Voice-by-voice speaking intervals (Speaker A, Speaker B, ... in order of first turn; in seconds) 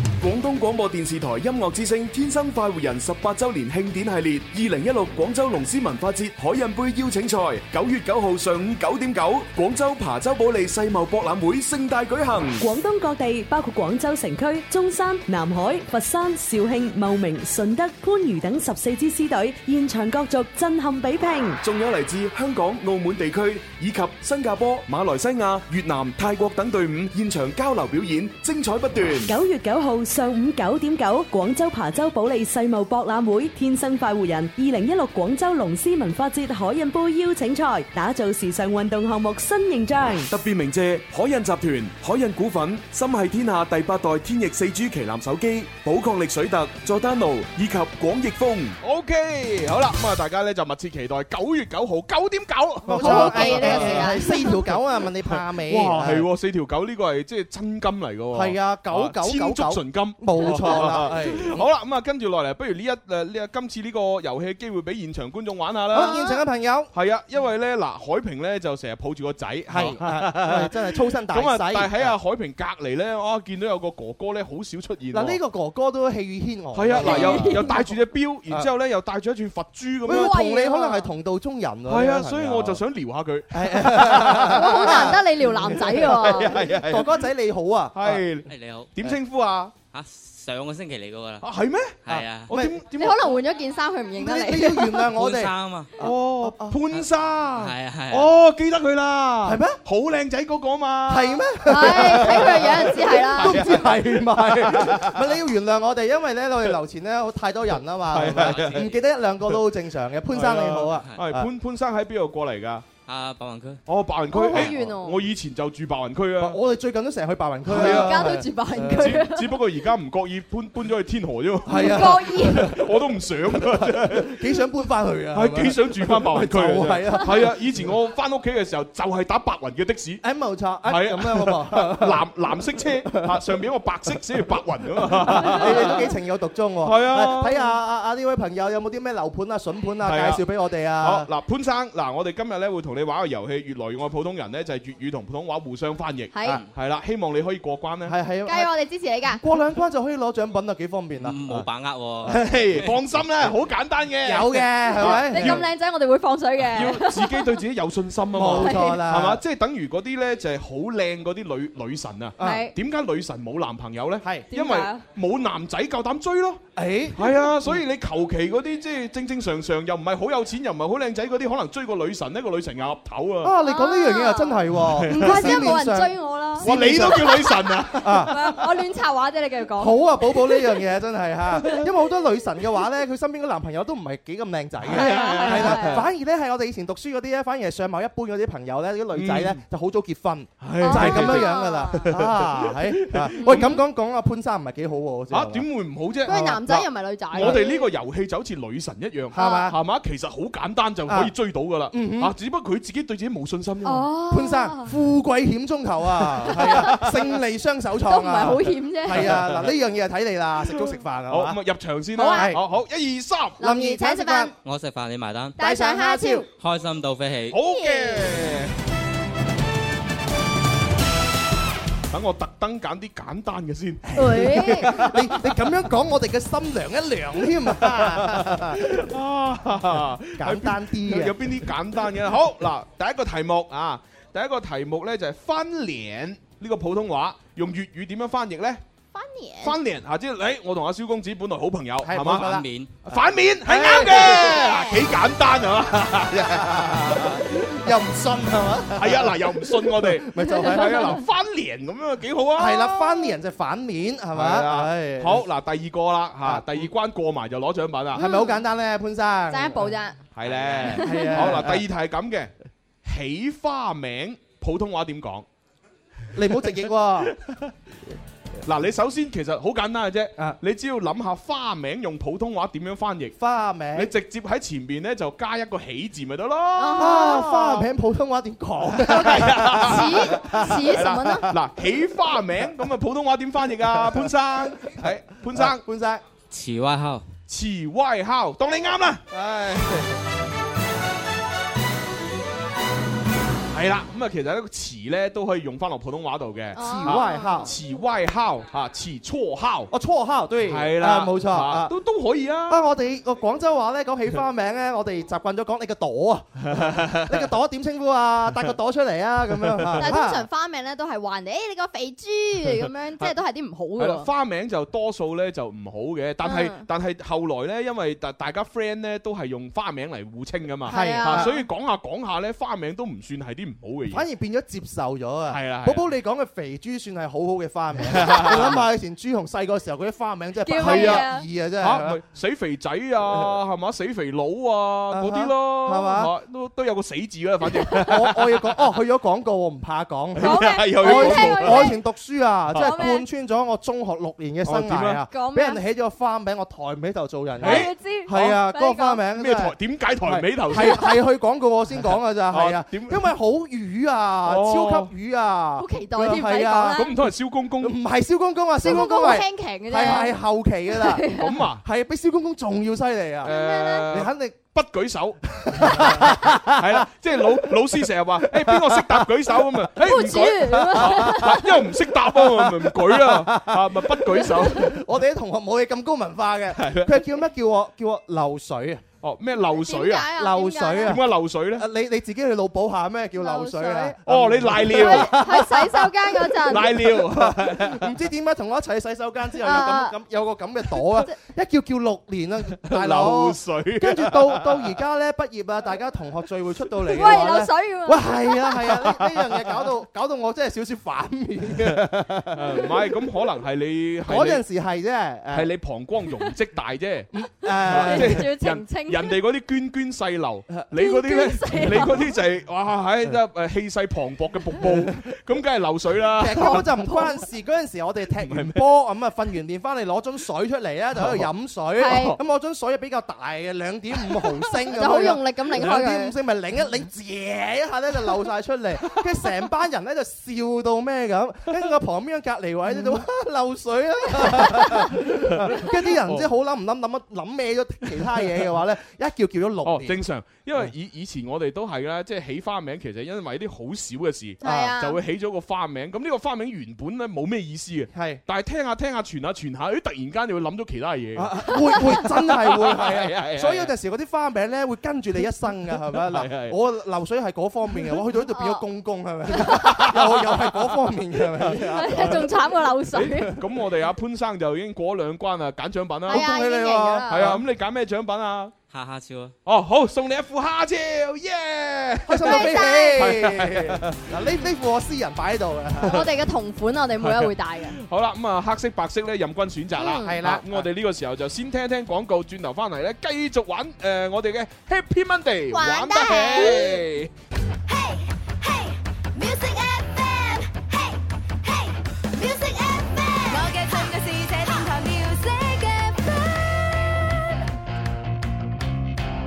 Speaker A: 0.2-12.7, 21.6-29.3, 40.3-48.8
Speaker B: 12.6-21.6, 29.3-40.3
Speaker C: 48.8-54.5, 55.2-66.2, 66.9-75.4, 76.7-80.3, 81.9-87.2, 87.9-89.7, 91.4-93.4, 96.0-105.3, 108.1-108.9, 110.3-112.8, 113.9-116.6, 117.7-124.5, 125.3-130.2, 130.8-136.1, 136.8-137.7, 140.0-140.4, 141.0-148.1, 152.2-155.7, 156.7-166.6, 167.2-173.5, 174.8-175.7, 176.6-178.5, 184.9-186.0, 189.1-189.6, 190.6-193.7, 195.3-204.1, 206.6-207.1, 209.1-209.7, 210.7-213.6, 217.5-218.7, 222.1-225.6, 227.8-238.8, 239.6-247.4, 248.9-253.2, 254.3-258.2, 260.4-262.5, 263.0-265.4, 268.6-273.4, 273.9-277.9, 278.9-285.8, 287.5-290.0, 293.7-299.9, 300.7-302.8, 306.7-307.4, 309.6-310.1, 314.0-324.2, 325.5-326.1, 328.0-328.8, 330.8-338.9, 340.4-342.0, 344.6-345.2, 347.6-348.6, 349.3-351.1, 352.5-353.3, 354.4-355.1, 356.9-357.9, 361.3-361.8, 363.4-375.0, 376.7-377.2, 379.2-380.3, 381.0-381.9, 384.2-385.4, 386.6-388.1, 392.8-395.0, 398.9-399.7, 402.5-404.6, 405.5-407.3, 407.8-416.9, 418.4-418.8, 421.1-421.5, 422.0-422.4, 435.3-436.5, 439.8-453.9, 456.1-456.8, 459.7-462.4, 463.1-466.5, 467.3-468.7, 469.6-474.2, 477.2-487.3
Speaker D: 52.9-56.2, 58.3-61.7, 65.9-66.9, 69.7-72.1, 75.1-78.0, 80.0-82.8, 83.5-88.2, 92.1-92.8, 94.2-96.8, 99.4-99.8, 101.1-111.5, 114.5-114.7, 116.4-119.2, 121.7-122.9, 123.5-127.6, 130.2-132.2, 133.1-133.4, 135.0-141.3, 148.1-148.7, 149.3-151.6, 152.2-152.6, 154.2-155.6, 158.3-159.4, 162.4-162.7, 164.2-164.5, 166.8-167.8, 173.4-178.4, 179.8-195.7, 197.3-197.6, 199.3-199.8, 201.1-201.3, 201.9-202.3, 204.3-211.6, 212.3-212.6, 213.6-214.5, 215.6-216.4, 224.1-228.9, 230.4-231.5, 242.0-244.6, 246.3-251.2, 252.6-255.4, 256.4-256.9, 258.1-259.9, 261.0-261.8, 266.3-267.3, 273.4-274.1, 277.0-281.5, 284.9-286.2, 289.3-290.1, 296.8-297.7, 299.9-301.9, 302.7-310.4, 320.9-321.5, 324.1-332.2, 333.3-333.6, 335.1-336.3, 337.9-357.1, 357.8-363.5, 364.1-364.6, 365.7-367.0, 368.5-369.2, 370.9-371.5, 372.3-379.0, 380.3-402.8, 404.2-405.7, 407.3-408.5, 414.8-415.2, 416.4-440.2, 444.6-444.9, 448.1-448.4, 451.4-462.5, 466.3-467.6, 472.3-476.2, 480.2-480.9
Speaker E: 53.0-54.6, 66.0-66.4, 77.0-77.8, 80.1-81.1, 84.5-86.5, 92.9-95.1, 101.7-103.6, 114.3-115.2, 117.7-119.5, 121.7-122.7, 146.3-146.6, 148.4-149.4, 154.9-157.6, 158.4-159.0, 162.4-162.7, 164.5-165.0, 173.6-177.5, 178.1-180.8, 184.9-186.0, 190.8-192.0, 193.4-193.8, 196.2-197.9, 199.3-199.7, 203.8-204.9, 206.4-207.1, 208.1-209.3, 212.2-212.5, 213.6-214.5, 215.6-216.5, 217.7-218.3, 224.2-224.9, 239.1-239.8, 244.1-245.0, 258.2-258.6, 259.5-260.2, 260.8-261.4, 276.8-277.4, 279.8-281.5, 296.7-297.7, 310.0-314.3, 316.4-316.9, 320.9-321.6, 330.6-331.4, 340.4-342.0, 342.8-343.2, 345.3-345.8, 347.6-349.2, 350.8-351.1, 355.8-357.1, 358.8-360.4, 360.9-361.5, 363.4-364.1, 370.0-371.7, 379.7-381.2, 383.4-384.1, 384.8-386.8, 389.6-390.1, 390.9-391.3, 397.1-398.7, 407.9-409.4, 410.9-412.2, 416.6-417.3, 422.0-422.4, 424.9-426.3, 444.6-445.2, 458.5-458.8, 461.8-463.5, 466.3-467.5, 472.4-473.2, 476.1-478.0, 480.0-480.4, 485.7-487.0, 493.6-494.1
Speaker F: 88.5-88.9, 89.9-91.4, 92.0-92.5, 95.1-95.9, 97.6-98.3, 108.3-108.9, 113.0-113.8, 151.2-152.4, 214.6-215.6, 216.5-217.6, 242.3-242.9, 260.4-260.9, 286.5-287.3, 468.9-469.5
Speaker G: 487.9-491.1, 491.6-496.8